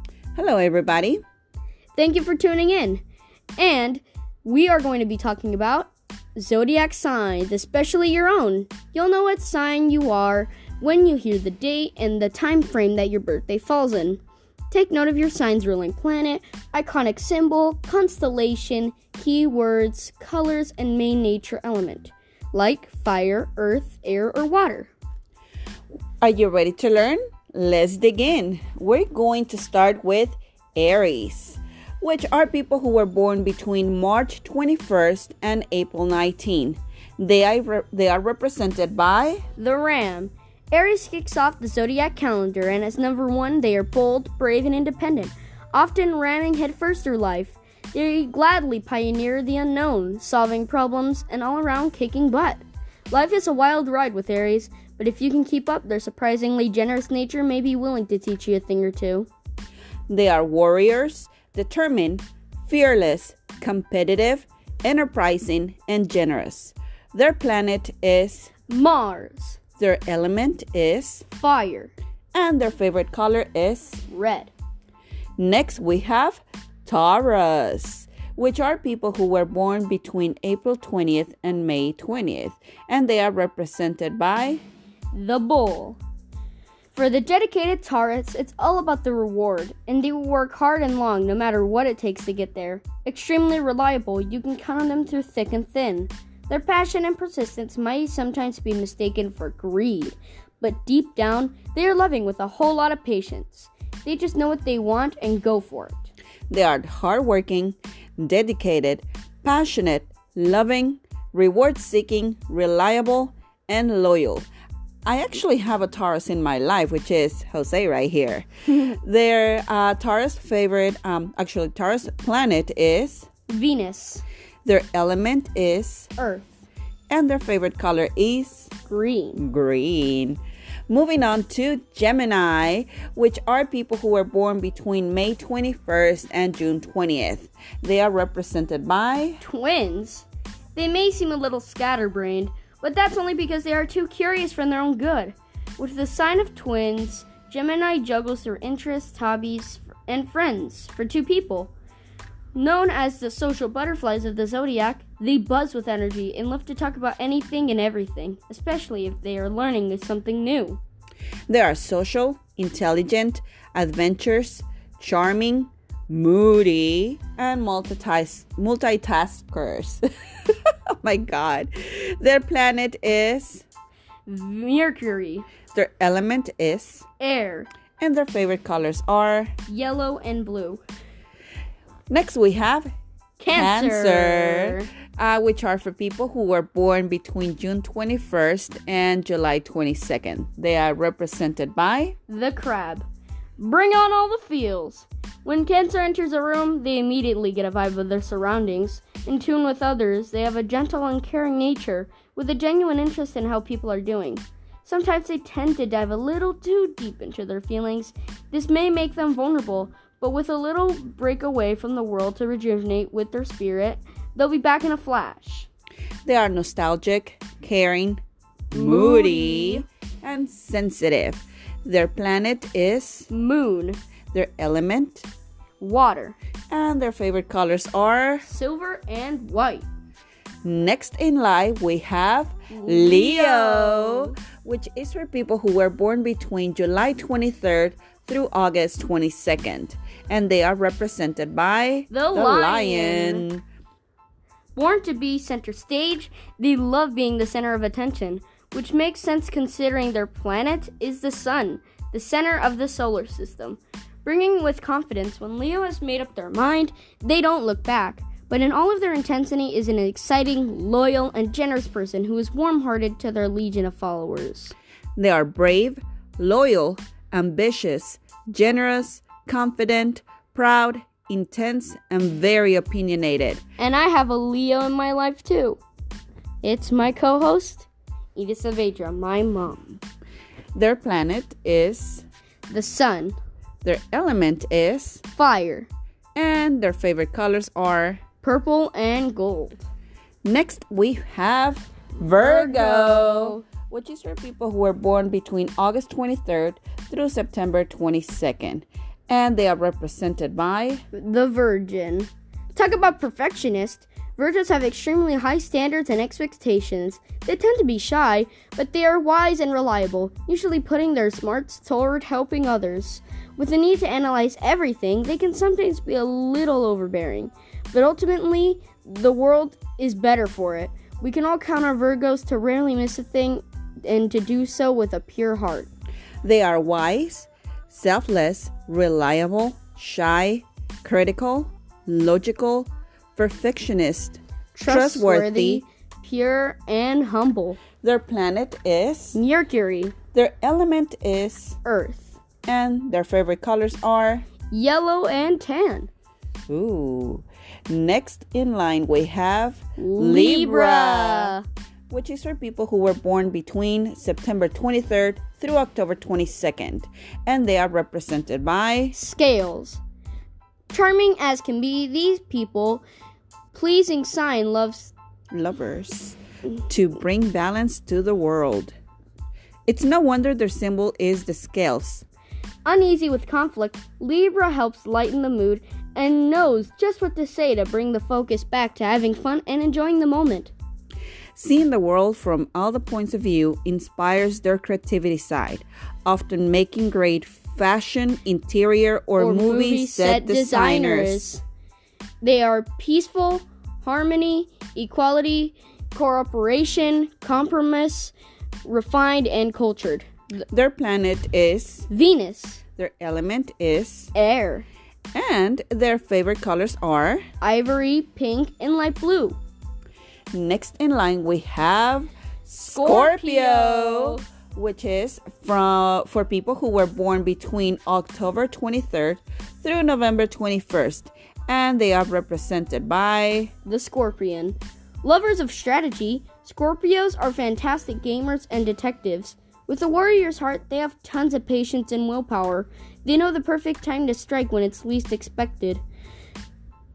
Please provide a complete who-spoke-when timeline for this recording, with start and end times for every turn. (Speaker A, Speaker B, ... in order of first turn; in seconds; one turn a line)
Speaker A: 0.3-1.2
Speaker B: 1.9-3.0
Speaker B: 3.6-14.2
Speaker B: 14.7-24.9
Speaker A: 26.2-39.4
Speaker B: 39.6-59.3
Speaker A: 60.1-68.5
Speaker B: 68.7-69.6
Speaker A: 69.8-71.2
Speaker B: 71.3-71.9
Speaker A: 72.3-74.0
Speaker B: 74.1-74.5
Speaker A: 75.4-84.6
Speaker B: 85.1-86.0
Speaker B: 86.9-106.1
Speaker A: 106.5-114.5
Speaker A: 115.0-123.3
Speaker B: 123.5-124.2
Speaker A: 124.6-126.1
Speaker B: 126.2-126.6
Speaker A: 127.1-128.7
Speaker B: 128.9-129.4
Speaker A: 129.4-139.4
Speaker B: 139.4-151.7
Speaker B: 152.5-160.8
Speaker A: 161.5-173.6
Speaker B: 174.3-175.5
Speaker A: 175.7-177.0
Speaker B: 177.2-177.7
Speaker A: 178.0-179.5
Speaker B: 179.7-180.8
Speaker A: 182.1-182.9
Speaker B: 183.4-184.9
Speaker A: 183.5-192.1
Speaker B: 192.3-193.0
Speaker B: 193.6-215.7
Speaker A: 216.2-223.3
Speaker B: 218.7-219.8
Speaker B: 223.3-224.0
Speaker A: 224.3-225.3
Speaker B: 225.8-226.3
Speaker A: 226.7-228.4
Speaker B: 228.4-229.8
Speaker A: 230.6-243.6
Speaker B: 232.7-234.4
Speaker B: 242.1-243.4
Speaker B: 244.7-264.7
Speaker A: 265.2-273.6
Speaker B: 273.8-275.8
Speaker B: 276.6-280.0
Speaker A: 280.7-282.2
Speaker B: 282.7-283.4
Speaker A: 283.8-285.2
Speaker B: 285.3-285.9
Speaker A: 286.4-288.2
Speaker B: 288.4-289.8
Speaker A: 290.4-301.0
Speaker B: 292.2-293.6
Speaker B: 301.1-325.9
Speaker A: 326.4-335.8
Speaker B: 334.7-337.8
Speaker A: 338.0-339.4
Speaker B: 339.3-340.1
Speaker A: 340.3-341.8
Speaker B: 341.8-342.4
Speaker A: 342.6-344.4
Speaker B: 344.7-346.1
Speaker A: 346.7-351.5
Speaker B: 350.0-351.6
Speaker A: 352.1-359.1
Speaker B: 359.1-360.0
Speaker B: 360.9-363.0
Speaker B: 363.7-365.1
Speaker A: 365.5-366.4
Speaker A: 366.9-368.9
Speaker A: 369.9-372.2
Speaker B: 372.9-380.7
Speaker A: 381.6-391.4
Speaker B: 389.4-391.6
Speaker B: 392.4-398.3
Speaker B: 398.8-400.2
Speaker A: 400.6-402.1
Speaker B: 402.1-402.8
Speaker A: 403.0-404.3
Speaker B: 404.3-404.9
Speaker A: 405.3-407.4
Speaker B: 407.6-409.6
Speaker A: 410.5-423.7
Speaker B: 412.9-414.4
Speaker B: 423.8-436.0